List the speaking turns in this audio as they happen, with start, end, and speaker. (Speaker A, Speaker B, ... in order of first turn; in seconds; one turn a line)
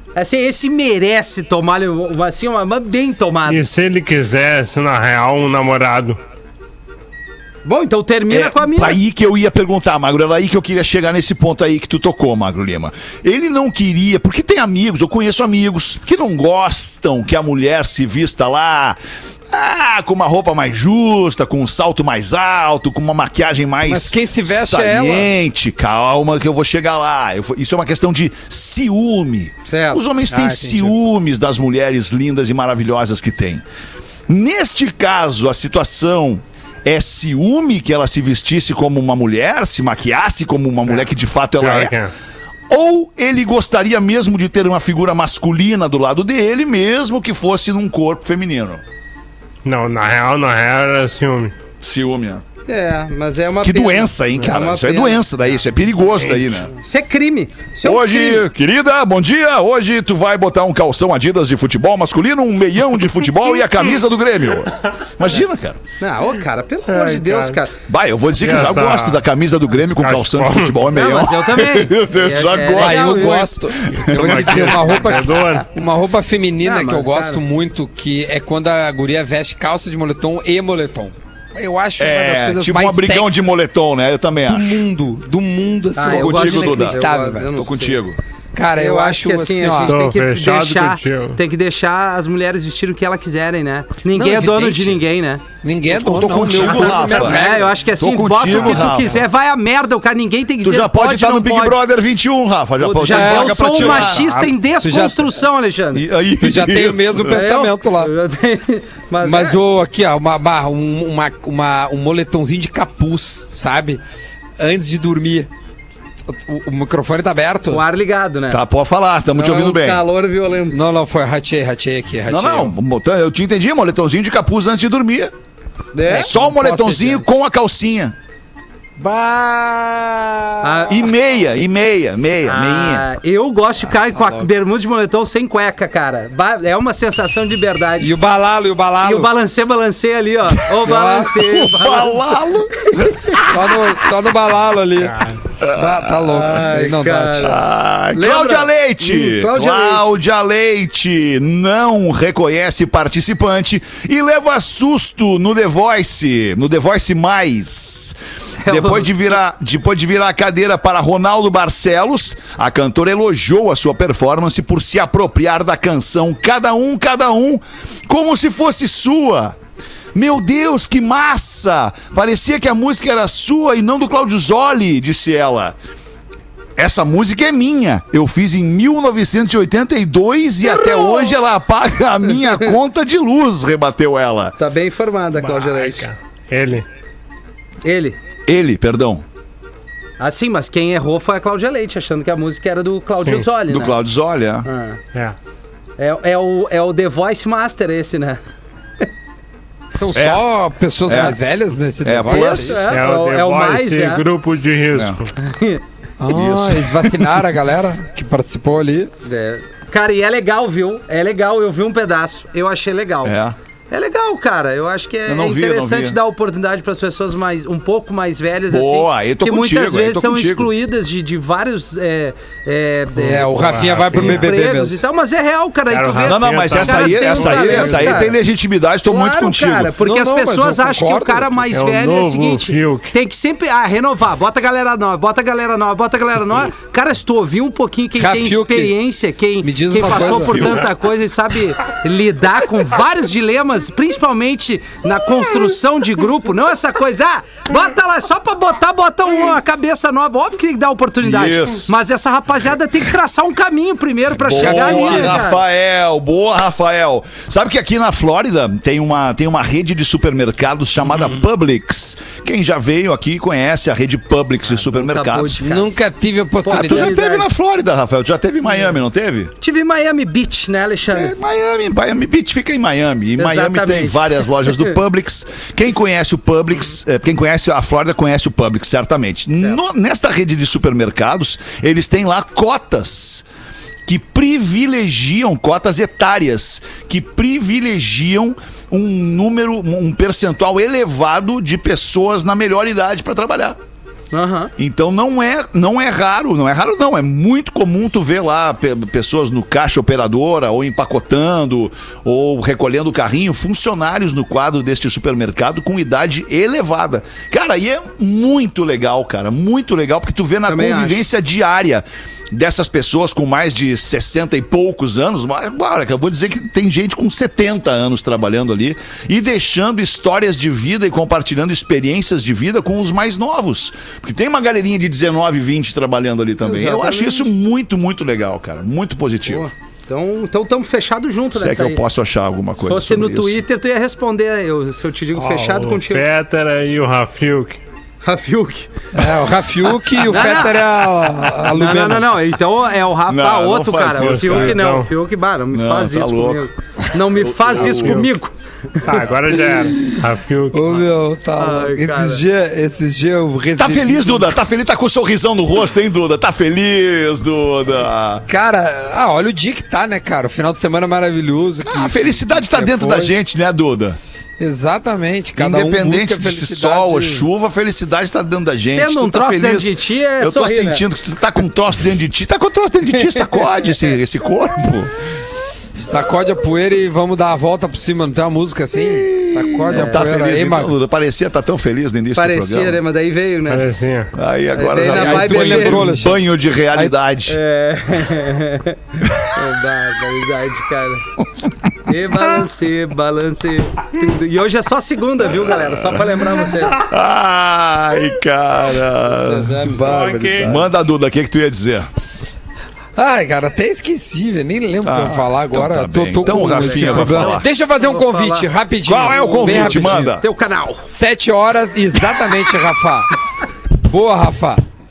Speaker A: 0.1-3.6
Speaker B: 3.5-6.2
Speaker A: 7.7-9.0
Speaker C: 8.3-19.0
Speaker C: 19.5-33.6
Speaker D: 23.9-25.3
Speaker A: 29.6-30.0
Speaker D: 30.3-30.9
Speaker C: 34.3-42.0
Speaker B: 41.6-42.1
Speaker C: 42.7-48.8
Speaker B: 49.6-51.5
Speaker C: 51.8-52.4
Speaker A: 52.7-55.3
Speaker C: 53.6-56.7
Speaker A: 56.7-58.5
Speaker C: 57.8-65.8
Speaker A: 66.0-67.7
Speaker B: 66.9-67.6
Speaker C: 67.9-75.4
Speaker B: 68.4-69.2
Speaker B: 69.8-70.8
Speaker A: 70.9-73.6
Speaker D: 72.8-83.6
Speaker B: 73.9-75.7
Speaker A: 76.6-77.4
Speaker C: 82.0-84.8
Speaker D: 84.5-87.5
Speaker A: 86.0-88.0
Speaker C: 86.0-88.2
Speaker D: 88.5-90.0
Speaker A: 88.8-95.4
Speaker B: 89.9-91.4
Speaker D: 94.1-95.0
Speaker D: 95.6-97.9
Speaker C: 95.9-97.5
Speaker A: 96.8-101.8
Speaker C: 98.0-99.2
Speaker C: 100.6-104.3
Speaker A: 102.8-106.1
Speaker D: 103.0-105.4
Speaker C: 105.9-107.5
Speaker D: 106.4-108.1
Speaker A: 107.3-109.6
Speaker D: 109.2-114.0
Speaker D: 114.6-115.5
Speaker D: 116.3-117.8
Speaker A: 117.7-118.6
Speaker C: 118.5-120.0
Speaker A: 119.3-120.8
Speaker D: 120.7-122.7
Speaker C: 122.3-125.3
Speaker A: 125.9-126.3
Speaker D: 126.1-127.2
Speaker C: 126.1-128.2
Speaker D: 129.0-130.9
Speaker A: 130.6-131.1
Speaker C: 130.9-133.1
Speaker A: 132.4-138.1
Speaker D: 134.0-134.5
Speaker D: 138.0-139.3
Speaker A: 139.0-143.1
Speaker D: 140.8-141.4
Speaker C: 141.3-144.0
Speaker D: 143.5-147.6
Speaker C: 145.6-146.3
Speaker A: 146.2-147.6
Speaker C: 147.4-169.6
Speaker A: 148.1-150.1
Speaker A: 158.6-159.2
Speaker C: 170.1-175.8
Speaker C: 176.8-184.6
Speaker A: 180.8-181.3
Speaker A: 182.3-182.8
Speaker A: 184.6-186.1
Speaker B: 185.4-186.9
Speaker A: 187.8-188.2
Speaker C: 188.5-189.2
Speaker A: 190.2-194.0
Speaker C: 193.7-194.7
Speaker A: 194.7-195.0
Speaker A: 196.0-198.4
Speaker D: 199.9-202.9
Speaker C: 200.1-200.4
Speaker C: 201.1-201.4
Speaker C: 202.0-202.9
Speaker A: 202.3-204.2
Speaker B: 202.9-205.3
Speaker C: 204.9-205.2
Speaker A: 205.4-205.8
Speaker D: 206.2-209.1
Speaker C: 206.3-207.4
Speaker A: 209.2-213.4
Speaker C: 213.2-213.6
Speaker A: 213.9-228.4
Speaker C: 215.3-216.2
Speaker C: 218.7-220.7
Speaker D: 223.3-225.0
Speaker B: 223.3-224.5
Speaker B: 225.9-228.3
Speaker C: 226.2-229.9
Speaker A: 229.1-255.6
Speaker D: 230.0-231.5
Speaker B: 231.7-233.1
Speaker D: 238.2-238.9
Speaker D: 239.6-240.8
Speaker C: 240.4-240.8
Speaker C: 251.2-251.9
Speaker C: 254.4-265.6
Speaker A: 264.7-265.9
Speaker D: 265.6-267.2
Speaker A: 266.6-267.5
Speaker C: 266.7-269.5
Speaker A: 269.6-271.3
Speaker C: 271.1-283.4
Speaker A: 273.4-274.9
Speaker A: 279.5-279.8
Speaker C: 284.1-293.8
Speaker A: 294.3-294.7
Speaker C: 294.8-329.7
Speaker A: 310.7-311.3
Speaker A: 326.6-327.5
Speaker A: 329.5-332.0
Speaker C: 331.5-333.6
Speaker A: 332.9-336.3
Speaker B: 335.4-337.8
Speaker A: 338.2-338.9
Speaker D: 339.1-342.3
Speaker A: 340.2-340.9
Speaker A: 341.7-349.2
Speaker C: 343.3-344.8
Speaker B: 344.1-345.1
Speaker C: 345.7-346.6
Speaker C: 347.3-348.2
Speaker B: 347.8-348.3
Speaker B: 349.0-351.1
Speaker D: 349.6-350.2
Speaker D: 350.7-354.6
Speaker A: 351.6-352.4
Speaker C: 353.8-358.5
Speaker D: 358.5-363.3
Speaker C: 361.9-364.2
Speaker D: 364.6-367.5
Speaker C: 365.6-375.1
Speaker A: 368.9-371.1
Speaker D: 375.9-380.9
Speaker C: 379.0-383.0
Speaker A: 379.9-380.2
Speaker A: 382.4-383.9
Speaker B: 383.7-384.3
Speaker C: 384.3-387.6
Speaker A: 384.7-386.1
Speaker D: 385.1-386.4
Speaker A: 387.5-391.3
Speaker C: 389.2-389.5
Speaker A: 392.1-397.0
Speaker C: 395.7-399.9
Speaker A: 399.3-400.7
Speaker D: 399.8-400.8
Speaker B: 400.1-400.7
Speaker C: 400.6-402.1
Speaker D: 403.2-410.3
Speaker C: 405.0-407.7
Speaker A: 406.6-408.7
Speaker C: 409.1-410.4
Speaker A: 409.2-411.1
Speaker D: 411.1-413.3
Speaker D: 414.0-414.8